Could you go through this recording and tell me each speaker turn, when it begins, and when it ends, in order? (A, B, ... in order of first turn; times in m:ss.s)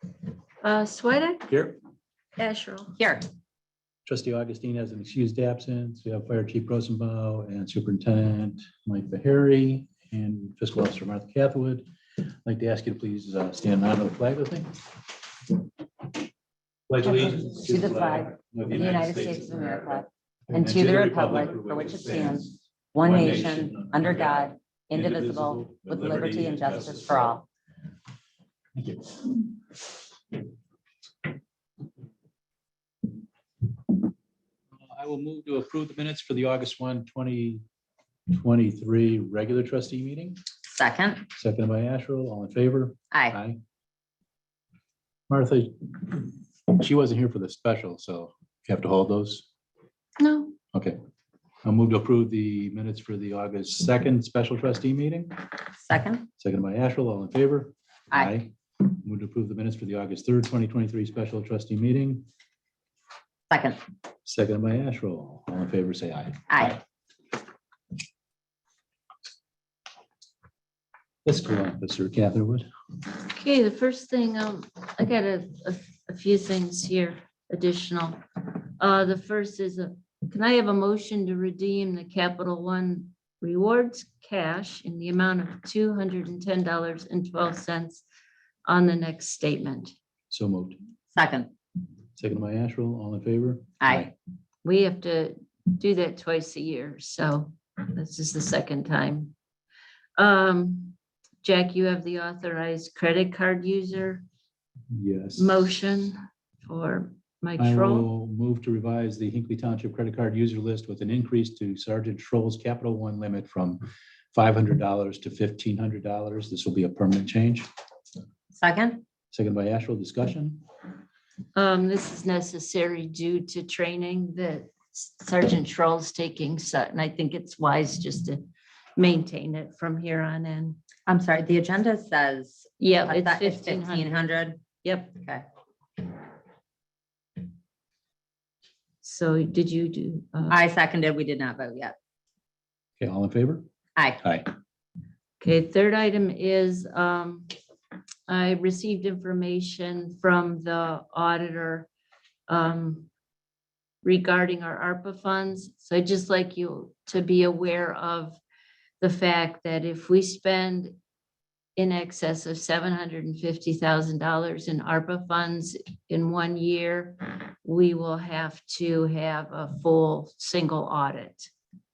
0:00.6-0:01.5 A
0:01.5-0:01.8 B
0:02.4-0:03.0 A
0:03.0-0:03.3 C
0:04.1-0:11.8 B
0:12.4-0:14.8 B
0:16.9-0:19.9 B
0:17.0-0:27.4 C
0:20.5-0:27.4 B
0:28.8-0:29.2 B
0:34.7-0:37.6 B
0:38.3-0:40.4 B
0:40.7-0:41.3 C
0:41.4-0:43.6 B
0:43.1-0:43.4 C
0:45.3-0:49.5 B
0:50.2-0:50.6 A
0:51.6-0:55.4 B
0:55.8-0:56.3 C
0:56.4-1:02.2 B
0:58.1-0:58.4 C
1:03.5-1:03.8 C
1:04.3-1:06.7 B
1:06.5-1:06.8 C
1:11.2-1:12.7 B
1:13.2-1:18.2 A
1:18.8-1:28.0 A
1:28.7-1:29.9 A
1:30.3-1:30.8 B
1:31.1-1:31.5 C
1:32.2-1:34.1 B
1:33.8-1:34.1 C
1:34.6-1:39.3 A
1:40.2-1:44.2 A
1:44.9-1:45.6 B
1:45.4-1:48.1 A
1:47.6-1:53.8 B
1:54.3-1:57.7 B
1:58.5-1:59.0 C
1:59.3-2:00.6 B
2:01.6-2:08.4 A
2:09.0-2:10.8 A
2:11.1-2:14.6 C
2:12.8-2:15.2 A
2:19.0-2:20.6 A
2:20.5-2:22.0 C
2:23.0-2:23.7 B
2:24.0-2:24.2 C
2:24.2-2:24.5 B
2:25.4-2:27.5 A
2:28.3-2:31.9 A
2:32.5-2:33.1 A
2:34.0-2:38.4 A
2:39.0-2:41.0 A
2:41.8-2:51.5 A